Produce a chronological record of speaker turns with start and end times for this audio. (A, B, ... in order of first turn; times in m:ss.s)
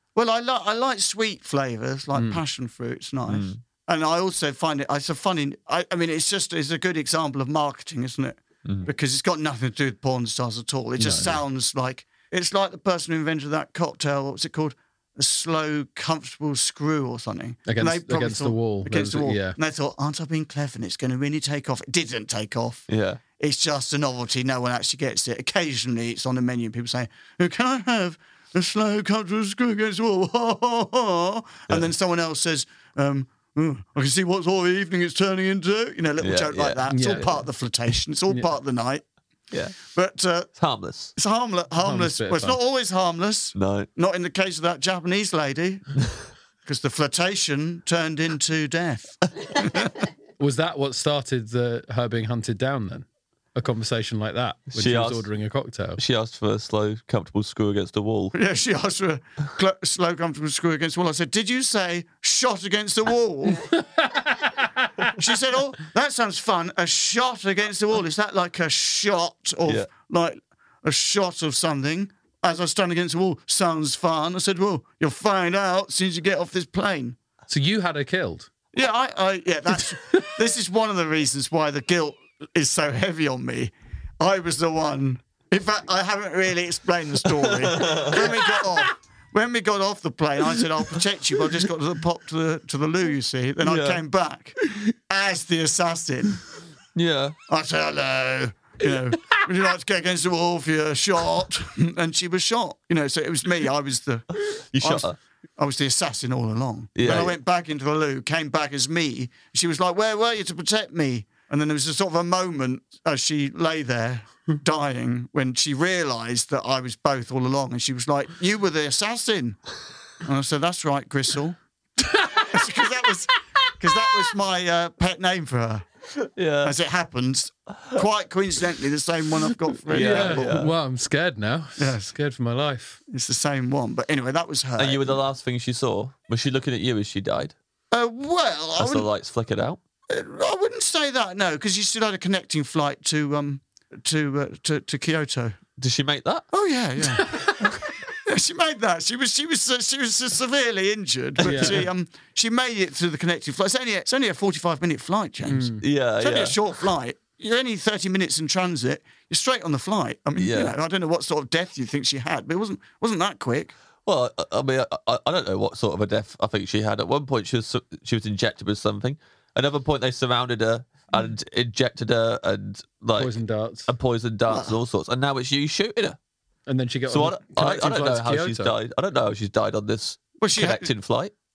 0:00.2-0:39.0 A
0:02.1-0:02.4 B
0:03.3-0:03.6 C
0:11.0-0:11.4 B
0:17.7-0:19.6 B
0:22.9-0:23.2 C
0:36.2-0:37.2 C
0:36.9-0:37.5 B
0:39.5-0:39.8 C
0:39.9-0:40.5 A
0:40.6-0:41.1 C
0:41.2-0:46.0 A
0:41.8-0:42.6 B
0:43.6-0:43.9 C
0:46.6-0:49.9 A
0:50.4-0:56.0 B
0:54.7-0:55.3 C
0:56.0-0:58.4 C
0:58.3-1:03.7 A
1:03.9-1:04.6 B
1:05.1-1:17.2 A
1:17.5-1:18.5 B
1:18.7-1:36.4 A
1:27.6-1:28.4 C
1:33.6-1:34.0 C
1:37.0-1:37.4 C
1:37.5-1:59.6 A
1:44.7-1:45.2 C
1:47.0-1:47.4 C
2:00.2-2:01.6 A
2:02.3-2:05.9 A
2:06.4-2:06.8 C
2:06.6-2:10.7 A
2:09.9-2:10.7 C
2:09.9-2:13.0 B
2:11.8-2:12.1 A
2:13.1-2:15.2 A
2:14.8-2:17.6 C
2:17.9-2:19.1 A
2:18.8-2:19.8 C
2:20.1-2:25.6 A
2:25.8-2:26.5 C
2:26.5-2:27.7 A
2:28.3-2:43.8 A
2:31.4-2:31.9 C
2:31.4-2:31.9 B
2:35.4-2:35.8 B
2:35.8-2:36.6 C
2:40.4-2:40.8 C
2:44.1-2:56.2 C
2:53.2-2:53.9 B
2:54.5-2:54.8 A
2:56.7-2:58.7 B
2:57.1-3:01.3 C
3:00.4-3:00.9 A